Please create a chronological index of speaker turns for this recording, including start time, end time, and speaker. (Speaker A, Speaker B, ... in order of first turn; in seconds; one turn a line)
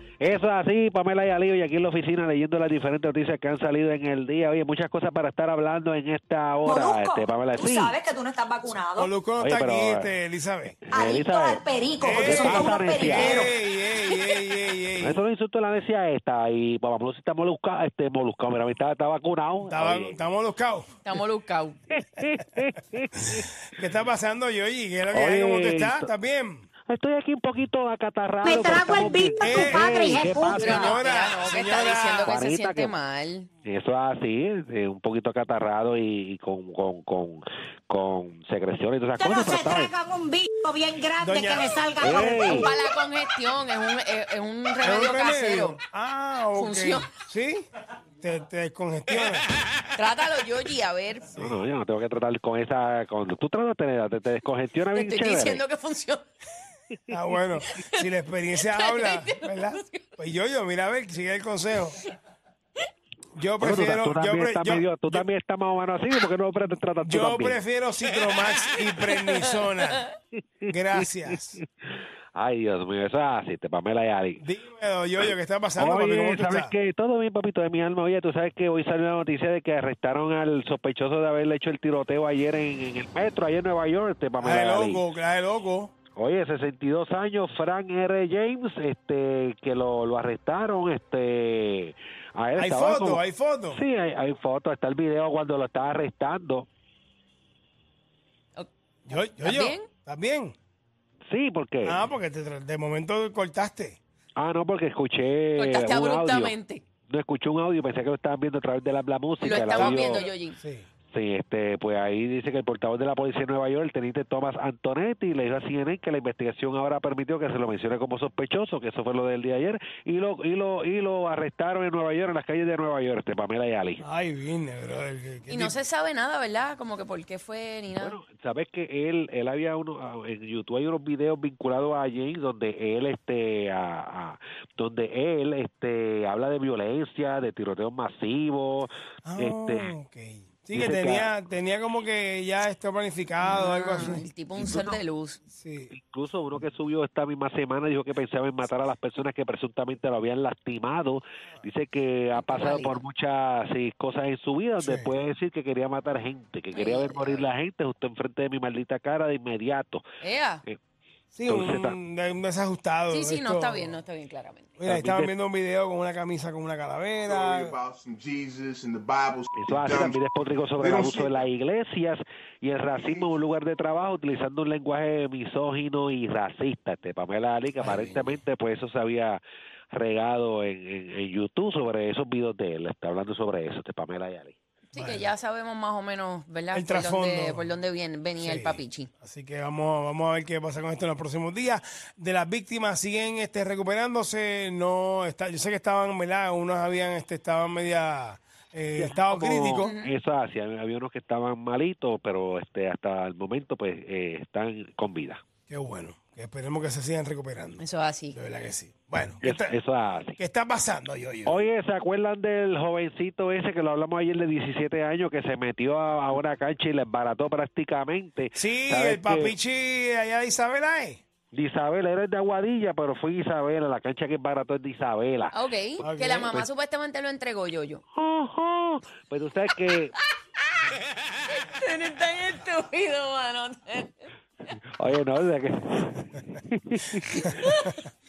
Speaker A: 0.2-8.0
Speaker B: 6.7-9.1
Speaker C: 8.9-10.8
Speaker A: 9.4-10.2
Speaker A: 10.9-13.4
Speaker B: 10.9-13.5
Speaker C: 12.0-15.2
Speaker A: 15.0-20.2
Speaker C: 19.6-20.9
Speaker D: 21.1-21.8
Speaker A: 21.9-23.6
Speaker C: 23.7-26.7
Speaker A: 25.1-26.1
Speaker A: 26.9-31.0
Speaker B: 28.4-30.9
Speaker C: 29.4-32.3
Speaker D: 30.5-33.5
Speaker A: 32.3-33.0
Speaker A: 33.6-39.9
Speaker B: 39.2-42.6
Speaker C: 41.2-42.7
Speaker A: 42.0-42.7
Speaker D: 42.5-45.8
Speaker C: 44.8-47.6
Speaker D: 46.5-47.1
Speaker C: 48.2-49.5
Speaker D: 50.0-51.4
Speaker C: 51.3-51.6
Speaker A: 51.4-55.6
Speaker D: 54.9-56.2
Speaker C: 57.1-62.0
Speaker D: 57.7-58.1
Speaker D: 58.6-60.1
Speaker C: 63.4-65.3
Speaker A: 63.6-67.6
Speaker C: 67.0-70.0
Speaker D: 69.2-70.1
Speaker A: 70.4-71.7
Speaker C: 70.7-71.6
Speaker A: 72.3-74.4
Speaker C: 74.4-76.7
Speaker A: 75.2-85.1
Speaker C: 84.4-85.9
Speaker A: 86.2-96.7
Speaker C: 92.6-93.8
Speaker D: 98.6-99.9
Speaker C: 99.1-100.5
Speaker A: 101.3-102.1
Speaker C: 101.8-104.0
Speaker A: 104.4-106.5
Speaker D: 105.6-106.8
Speaker A: 107.1-110.3
Speaker D: 109.4-110.6
Speaker C: 109.7-110.9
Speaker A: 111.1-124.0
Speaker C: 124.0-125.8
Speaker D: 125.5-128.2
Speaker A: 127.9-139.9
Speaker C: 139.2-144.2
Speaker A: 140.7-141.3
Speaker D: 143.4-145.4
Speaker A: 144.6-145.0
Speaker C: 145.5-145.9
Speaker A: 145.9-160.0
Speaker D: 152.4-153.0
Speaker C: 154.8-155.1
Speaker D: 156.7-157.5
Speaker D: 160.2-160.7
Speaker C: 161.3-164.0
Speaker A: 161.5-162.0
Speaker D: 163.1-164.7
Speaker C: 164.8-167.8
Speaker A: 164.8-165.3
Speaker E: 167.3-170.1
Speaker A: 169.5-179.4
Speaker C: 170.8-171.3
Speaker C: 177.8-178.4
Speaker A: 179.9-184.6
Speaker D: 184.9-189.1
Speaker C: 184.9-185.3
Speaker C: 186.7-187.8
Speaker C: 188.4-199.9
Speaker A: 199.0-205.4
Speaker D: 199.8-200.1
Speaker C: 205.7-209.8
Speaker D: 207.8-208.4
Speaker A: 209.4-210.4
Speaker C: 210.4-211.6
Speaker A: 211.5-219.6
Speaker C: 218.5-221.2
Speaker A: 221.5-225.6
Speaker D: 225.5-228.0
Speaker C: 226.0-226.6
Speaker A: 228.2-230.1
Speaker D: 231.5-234.3
Speaker A: 234.9-237.7
Speaker D: 237.4-238.0